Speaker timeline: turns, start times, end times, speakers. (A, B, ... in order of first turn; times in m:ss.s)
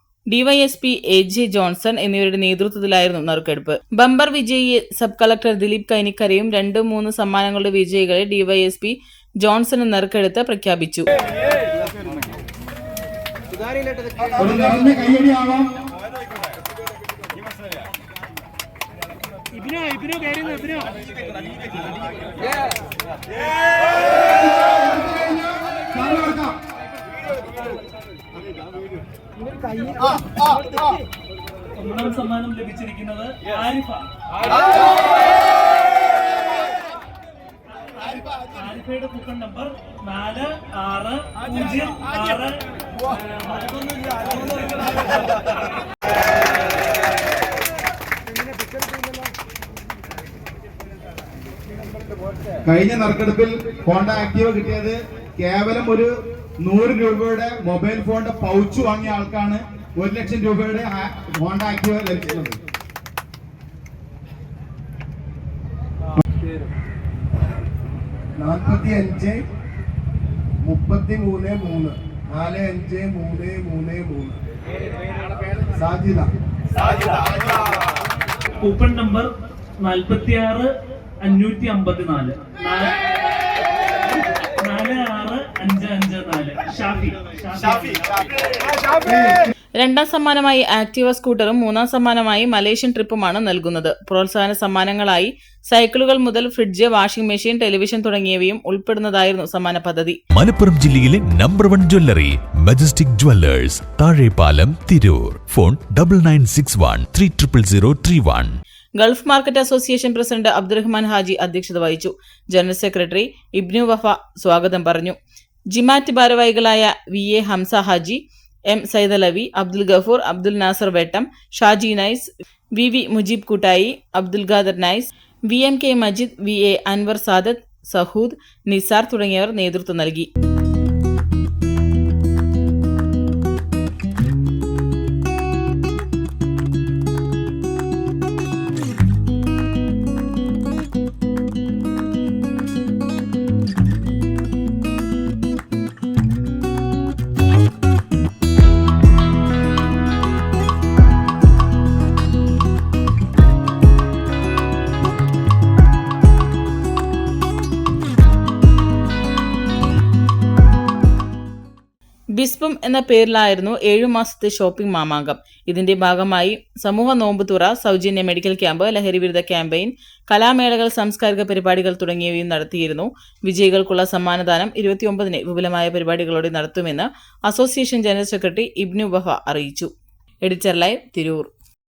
0:00.3-0:11.0 A
0:14.4-0:15.7 B
0:31.8-0:34.8 C
0:38.0-0:42.6 C
0:44.4-0:45.0 C
0:52.6-0:56.1 B
0:56.6-1:02.5 B
1:08.4-1:09.4 D
1:10.6-1:14.4 D
1:15.8-1:16.3 D
1:18.6-1:19.3 C
1:19.8-1:20.7 C
1:21.2-1:23.0 C
1:24.6-1:28.1 C
1:29.8-1:40.2 A
1:40.3-1:48.5 E
1:49.0-1:55.2 A
1:55.7-2:10.3 A
2:42.4-2:59.9 A
3:00.4-3:01.5 A